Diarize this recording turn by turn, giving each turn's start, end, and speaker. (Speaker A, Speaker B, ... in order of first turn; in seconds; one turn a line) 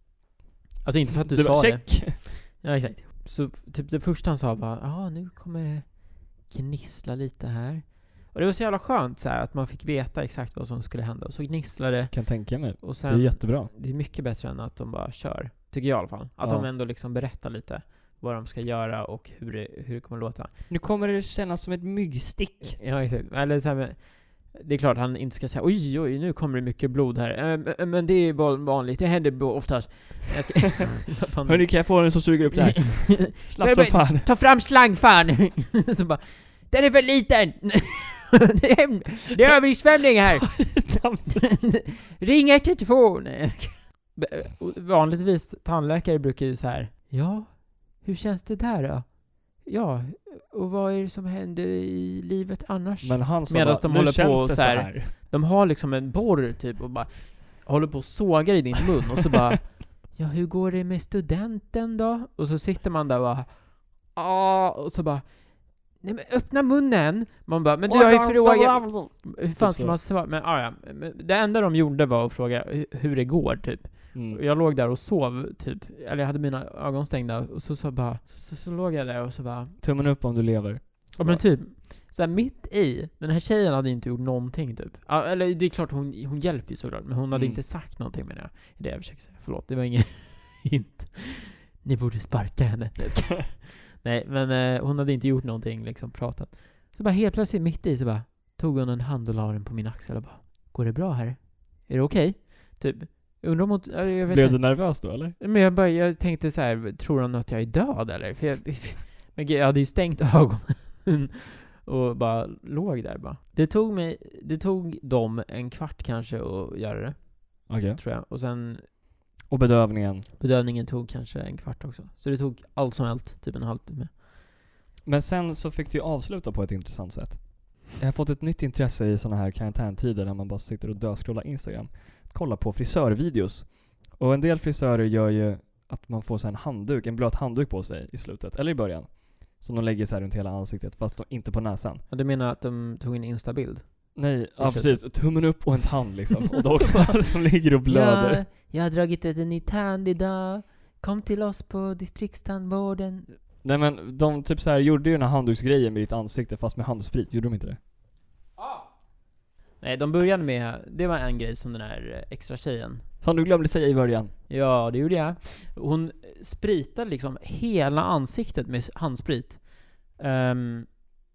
Speaker A: 0.8-20.5
Speaker B: 1.2-2.2
Speaker B: 12.1-13.7
Speaker B: 16.4-16.7
Speaker B: 20.7-22.8
Speaker A: 22.6-79.8
Speaker B: 31.4-34.3
Speaker B: 40.5-41.6
Speaker B: 53.0-55.1
Speaker B: 67.9-70.0
Speaker B: 74.1-74.4
Speaker B: 79.8-81.4
Speaker A: 81.2-118.9
Speaker B: 87.3-87.6
Speaker B: 104.3-105.4
Speaker B: 117.7-118.0
Speaker B: 119.5-120.3
Speaker A: 120.4-124.1
Speaker B: 125.0-142.0
Speaker A: 142.1-145.7
Speaker B: 144.1-148.4
Speaker A: 147.8-153.4
Speaker B: 153.6-157.8
Speaker A: 158.6-158.9
Speaker A: 159.8-163.1
Speaker B: 163.2-164.3
Speaker A: 164.5-170.9